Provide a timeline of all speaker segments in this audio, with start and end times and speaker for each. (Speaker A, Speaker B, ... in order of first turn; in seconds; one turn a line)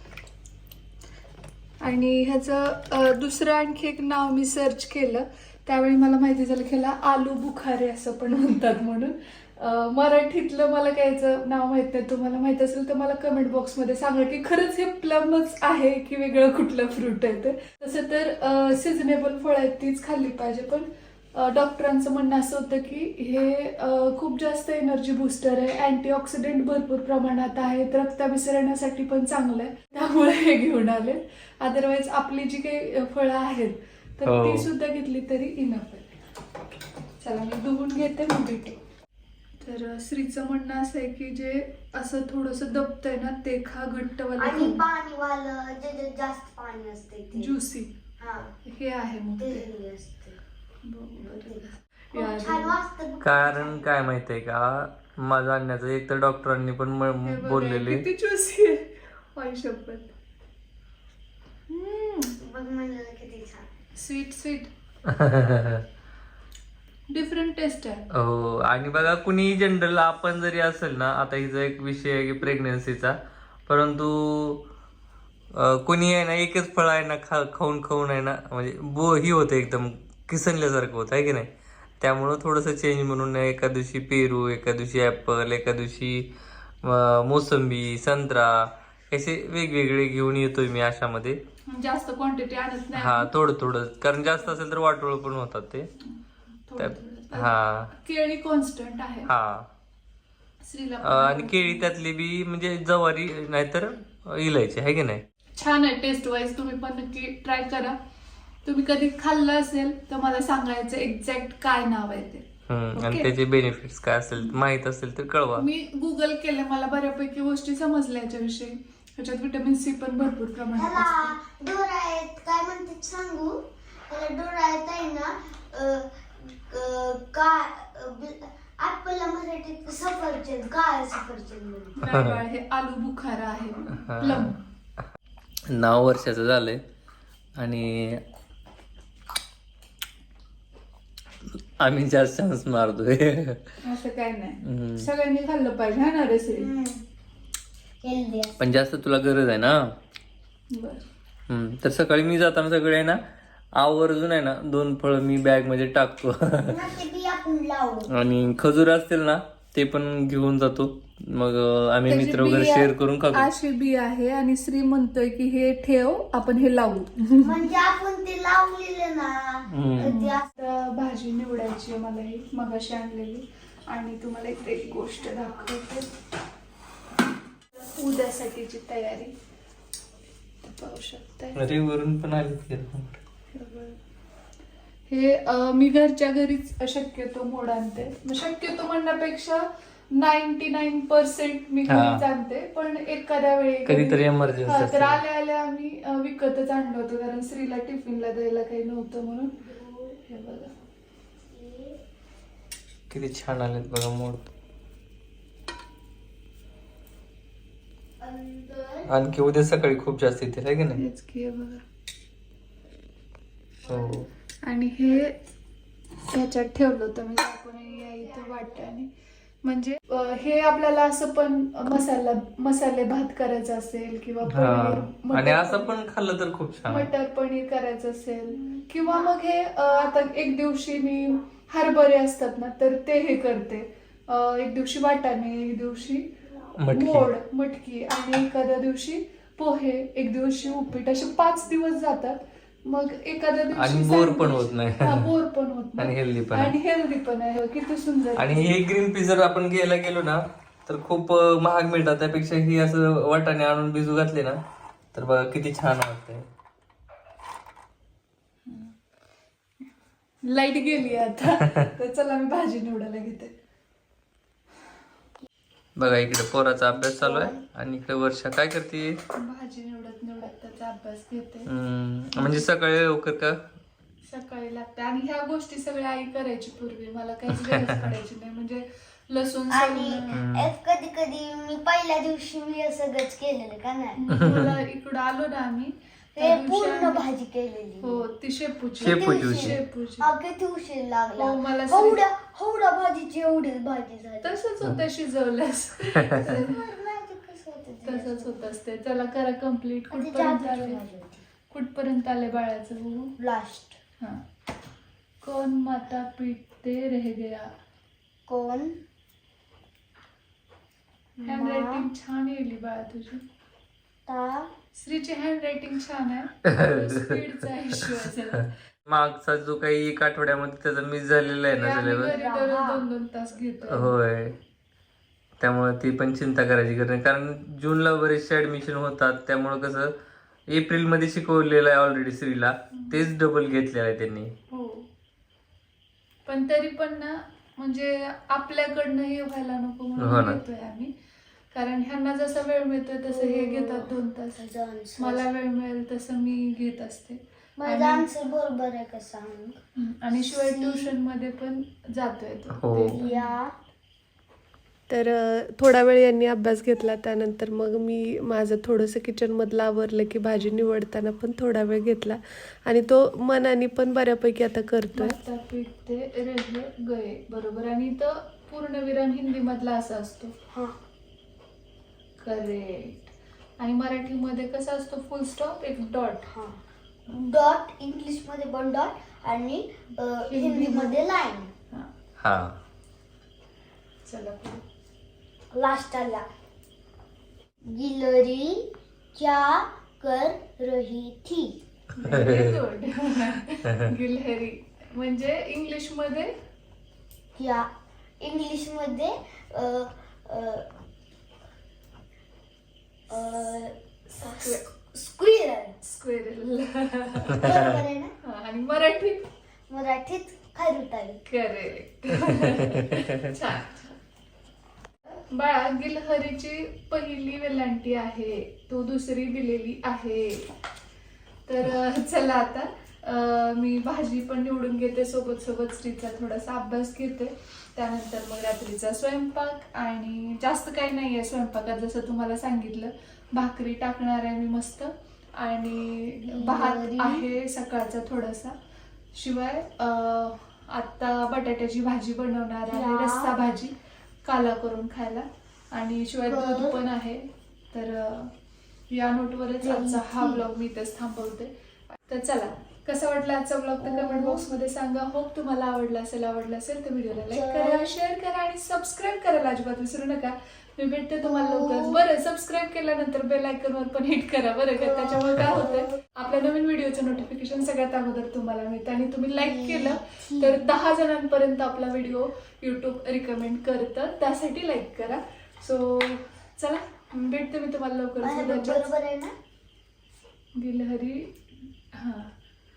Speaker A: 1.8-36.1
Speaker B: 34.2-34.7
Speaker A: 37.2-38.8
Speaker A: 39.6-44.8
Speaker C: 44.4-47.5
Speaker A: 47.4-47.9
Speaker C: 48.2-48.5
Speaker A: 48.6-49.7
Speaker C: 49.4-50.4
Speaker A: 50.8-52.8
Speaker C: 51.2-53.9
Speaker B: 53.2-58.0
Speaker A: 57.2-60.1
Speaker A: 61.7-62.4
Speaker C: 62.4-63.7
Speaker A: 64.0-64.7
Speaker B: 65.1-65.8
Speaker A: 67.1-68.0
Speaker B: 68.1-73.2
Speaker B: 73.7-74.6
Speaker B: 75.5-81.5
Speaker B: 82.0-86.3
Speaker B: 86.8-91.4
Speaker A: 91.7-93.3
Speaker B: 93.0-95.9
Speaker A: 96.0-99.3
Speaker B: 96.8-97.9
Speaker B: 99.2-99.7
Speaker A: 100.6-101.9
Speaker B: 101.0-105.2
Speaker A: 105.5-108.0
Speaker A: 108.6-112.5
Speaker B: 112.7-115.7
Speaker A: 113.0-113.3
Speaker A: 115.6-121.4
Speaker C: 120.7-132.0
Speaker A: 132.0-134.6
Speaker B: 132.0-132.4
Speaker B: 134.0-134.6
Speaker B: 135.7-136.8
Speaker B: 137.6-138.2
Speaker B: 141.8-143.6
Speaker A: 143.8-146.7
Speaker B: 144.6-145.1
Speaker C: 146.5-147.0
Speaker C: 148.0-148.5
Speaker B: 148.6-149.9
Speaker A: 150.7-151.0
Speaker B: 151.5-153.2
Speaker B: 153.8-156.8
Speaker C: 156.7-158.1
Speaker B: 158.1-163.5
Speaker A: 162.1-167.6
Speaker C: 167.4-170.5
Speaker B: 169.7-170.2
Speaker A: 170.0-176.1
Speaker A: 177.7-179.3
Speaker A: 180.6-181.6
Speaker B: 181.5-183.2
Speaker A: 183.5-184.0
Speaker A: 185.1-199.7
Speaker B: 191.9-192.2
Speaker B: 193.8-195.2
Speaker C: 199.6-200.2
Speaker A: 200.2-200.7
Speaker C: 201.4-202.0
Speaker B: 203.1-204.4
Speaker C: 208.2-209.1
Speaker B: 209.1-211.0
Speaker A: 210.9-211.8
Speaker B: 213.8-214.3
Speaker A: 214.7-215.4
Speaker A: 216.3-219.1
Speaker C: 218.2-218.8
Speaker A: 219.6-226.0
Speaker B: 224.5-227.1
Speaker A: 226.8-236.3
Speaker B: 236.8-237.3
Speaker A: 236.9-248.8
Speaker B: 243.7-245.3
Speaker B: 246.0-246.7
Speaker B: 248.4-254.6
Speaker B: 255.1-256.5
Speaker A: 258.7-258.9
Speaker A: 260.4-263.5
Speaker B: 266.0-269.2
Speaker C: 267.2-267.6
Speaker A: 269.3-271.7
Speaker B: 271.7-273.6
Speaker A: 272.3-272.7
Speaker A: 274.2-280.4
Speaker B: 277.6-278.0
Speaker C: 279.7-284.2
Speaker B: 280.3-280.7
Speaker A: 284.2-287.2
Speaker C: 286.3-288.2
Speaker A: 288.0-290.3
Speaker B: 289.0-289.8
Speaker C: 289.0-294.6
Speaker A: 291.4-292.2
Speaker A: 294.4-296.8
Speaker C: 296.4-298.6
Speaker A: 298.0-301.0
Speaker C: 300.1-301.4
Speaker A: 301.7-303.3
Speaker C: 303.4-304.0
Speaker A: 305.4-307.7
Speaker C: 308.5-309.0
Speaker A: 311.4-313.4
Speaker C: 311.4-312.1
Speaker C: 314.2-314.7
Speaker A: 314.9-318.7
Speaker B: 316.7-317.4
Speaker B: 318.6-322.3
Speaker A: 321.7-324.1
Speaker C: 322.2-323.0
Speaker B: 323.9-324.5
Speaker B: 325.6-330.1
Speaker B: 330.7-334.5
Speaker A: 334.7-335.1
Speaker A: 336.4-341.1
Speaker B: 340.2-340.6
Speaker A: 341.7-344.6
Speaker C: 343.3-345.5
Speaker A: 345.2-348.3
Speaker C: 347.8-349.8
Speaker A: 350.0-353.5
Speaker C: 350.3-351.1
Speaker B: 352.8-353.2
Speaker C: 353.1-353.7
Speaker D: 355.1-365.4
Speaker A: 365.1-370.5
Speaker A: 372.4-376.5
Speaker C: 376.5-381.7
Speaker A: 380.5-381.2
Speaker B: 382.4-382.8
Speaker A: 384.2-384.8
Speaker C: 385.7-386.4
Speaker C: 387.8-391.8
Speaker A: 392.2-396.5
Speaker B: 392.2-392.8
Speaker C: 397.6-397.9
Speaker C: 398.4-400.9
Speaker C: 403.3-405.9
Speaker A: 406.0-407.7
Speaker C: 407.6-408.3
Speaker A: 408.4-409.4
Speaker C: 409.9-411.4
Speaker A: 411.4-414.1
Speaker A: 415.3-420.7
Speaker A: 421.7-438.7
Speaker C: 436.4-437.5
Speaker A: 439.3-448.5
Speaker C: 442.9-443.5
Speaker C: 446.5-447.0
Speaker A: 449.1-479.1
Speaker C: 449.8-450.6
Speaker C: 454.0-454.6
Speaker C: 457.5-458.1
Speaker C: 461.4-462.2
Speaker C: 464.9-466.2
Speaker C: 469.6-470.9
Speaker C: 478.4-479.5
Speaker A: 480.8-481.6
Speaker A: 482.1-482.5